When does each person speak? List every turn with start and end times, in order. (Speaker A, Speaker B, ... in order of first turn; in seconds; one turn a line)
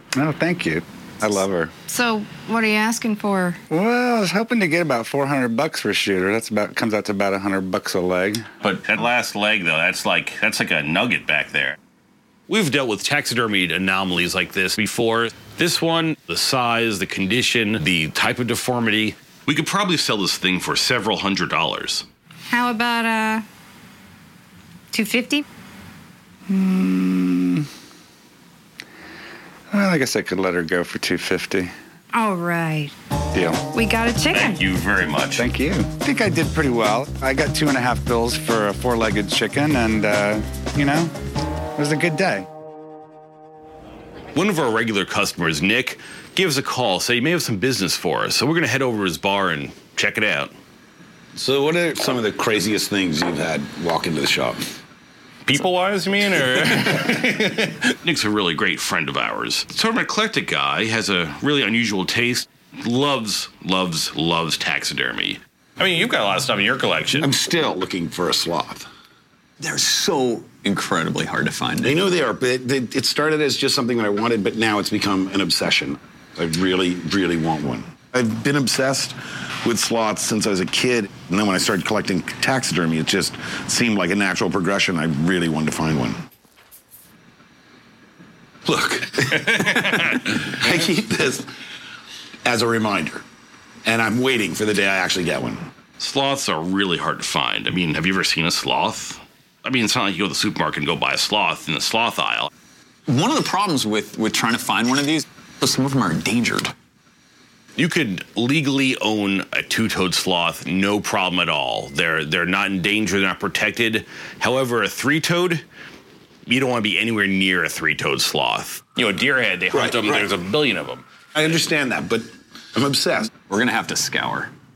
Speaker A: 0.1-1.7
Speaker B: 1.9-3.6
Speaker A: 3.7-8.4
Speaker C: 8.6-11.8
Speaker C: 12.5-22.1
Speaker B: 22.5-23.4
Speaker B: 24.9-25.4
Speaker A: 26.5-27.6
Speaker A: 29.7-31.7
Speaker B: 32.1-32.9
Speaker A: 33.3-33.6
Speaker B: 33.7-34.6
Speaker C: 34.3-35.4
Speaker A: 35.4-41.1
Speaker A: 41.8-42.5
Speaker C: 44.4-50.5
Speaker D: 51.4-54.6
Speaker C: 55.5-67.3
Speaker D: 67.2-68.9
Speaker E: 69.6-72.0
Speaker D: 72.1-86.2
Speaker D: 88.7-89.2
Speaker C: 89.5-90.2
Speaker D: 90.5-91.4
Speaker D: 92.5-93.2
Speaker D: 93.9-95.6
Speaker C: 96.0-102.5
Speaker E: 103.1-106.7
Speaker C: 107.8-115.6
Speaker C: 116.5-121.0
Speaker D: 119.7-120.2
Speaker D: 121.3-123.3
Speaker E: 123.4-124.5